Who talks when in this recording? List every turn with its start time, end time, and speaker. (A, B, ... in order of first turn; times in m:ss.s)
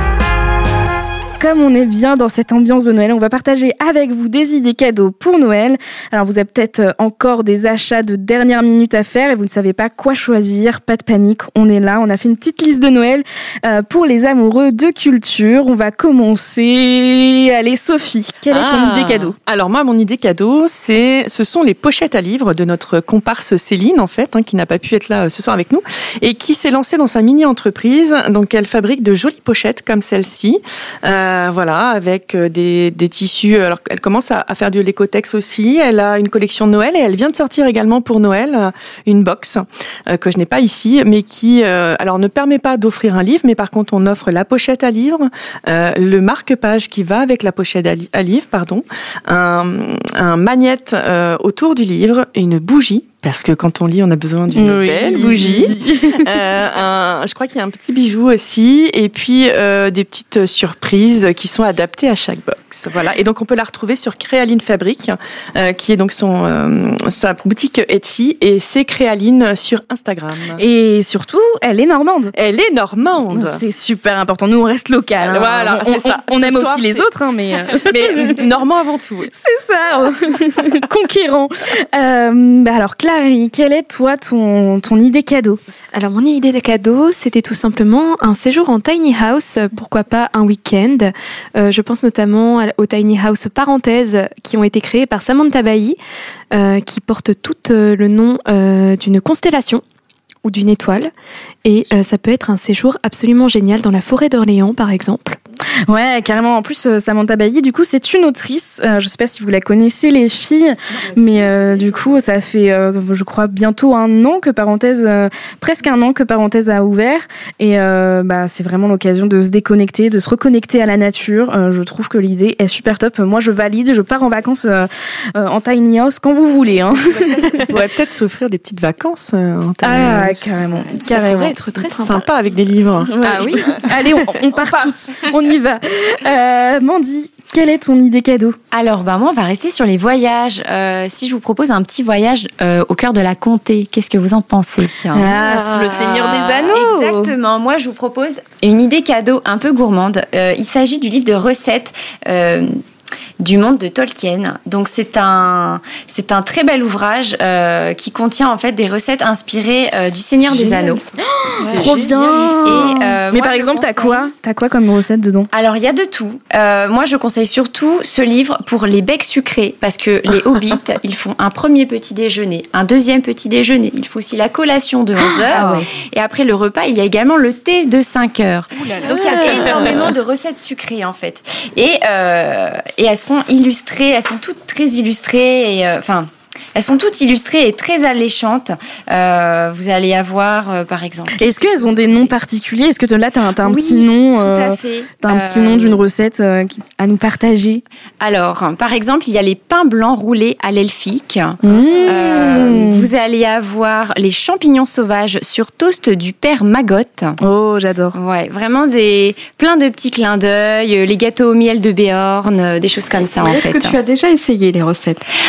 0:01.4-0:19.4 A
0:18.5-1:10.6 B
0:54.5-0:56.3 A
1:10.6-1:12.3 A
1:12.3-1:13.6 B
1:13.3-1:18.4 A
1:15.2-1:17.0 B
1:17.8-1:19.3 B
1:19.3-1:25.6 A
1:25.9-1:36.0 C
1:36.5-1:39.8 C
1:40.4-1:41.1 C
1:41.6-1:45.4 C
1:45.9-2:07.7 A
2:07.0-2:10.6 B
2:09.8-2:11.6 A
2:11.0-2:12.2 C
2:11.9-2:14.9 B
2:13.1-2:18.6 A
2:13.2-2:13.8 C
2:18.7-2:25.4 D
2:25.1-2:27.3 A
2:25.4-2:26.5 B
2:26.4-2:32.8 D
2:33.4-2:41.0 D
2:40.6-2:40.9 E
2:41.2-2:45.5 A
2:41.6-2:42.9 B
2:42.6-2:44.3 D
2:45.5-3:12.3 D
2:55.5-2:55.8 A
2:58.8-2:59.8 E
3:11.3-3:17.8 A
3:13.6-3:16.0 D
3:18.2-3:27.4 D
3:21.6-3:23.1 A
3:27.4-3:28.2 A
3:28.1-3:33.9 D
3:33.4-3:35.2 E